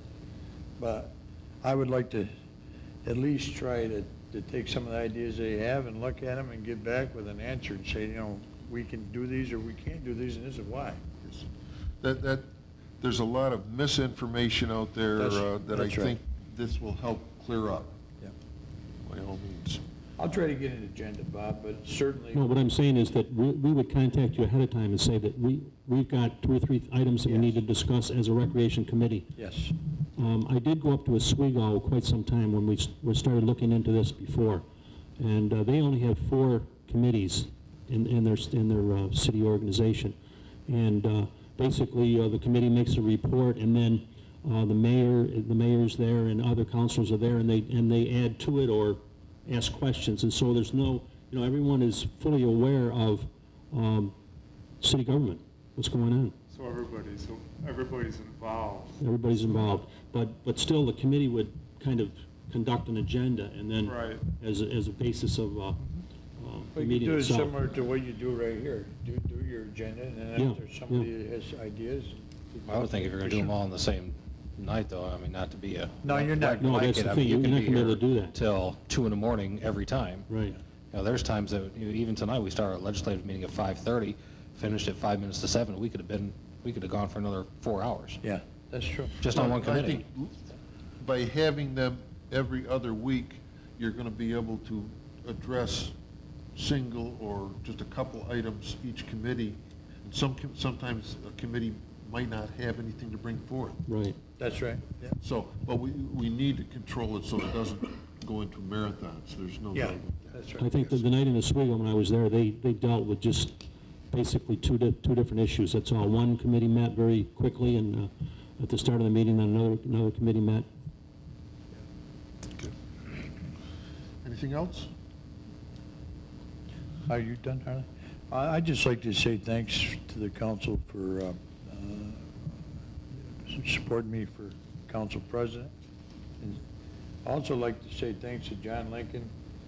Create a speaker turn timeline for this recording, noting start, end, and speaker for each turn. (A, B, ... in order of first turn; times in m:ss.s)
0:00.8-0:02.3 A
0:03.0-0:11.0 A
0:12.0-0:12.5 B
0:13.0-0:18.0 B
0:15.2-0:16.2 A
0:19.0-0:19.8 B
0:20.2-0:22.5 A
0:22.3-0:29.3 C
0:27.2-0:27.6 A
0:29.4-0:29.8 A
0:30.2-0:34.6 C
0:35.2-0:40.2 C
0:40.7-0:54.2 C
0:54.8-0:56.4 C
0:56.5-0:59.0 D
0:59.0-1:05.8 C
1:03.8-1:04.3 D
1:06.4-1:07.6 C
1:06.7-1:13.5 A
1:10.4-1:11.1 C
1:12.7-1:20.3 E
1:16.0-1:17.2 A
1:16.6-1:18.4 C
1:20.3-1:20.6 C
1:20.9-1:28.2 E
1:28.2-1:29.2 A
1:29.2-1:30.0 E
1:29.3-1:30.4 B
1:31.0-1:36.0 B
1:36.6-1:43.8 B
1:43.9-1:44.2 C
1:44.4-1:45.2 A
1:45.2-1:50.4 B
1:49.7-1:50.8 A
1:50.6-2:00.7 C
2:04.2-2:04.9 B
2:07.1-2:12.5 A
2:13.3-2:15.7 A
2:17.2-2:19.3 A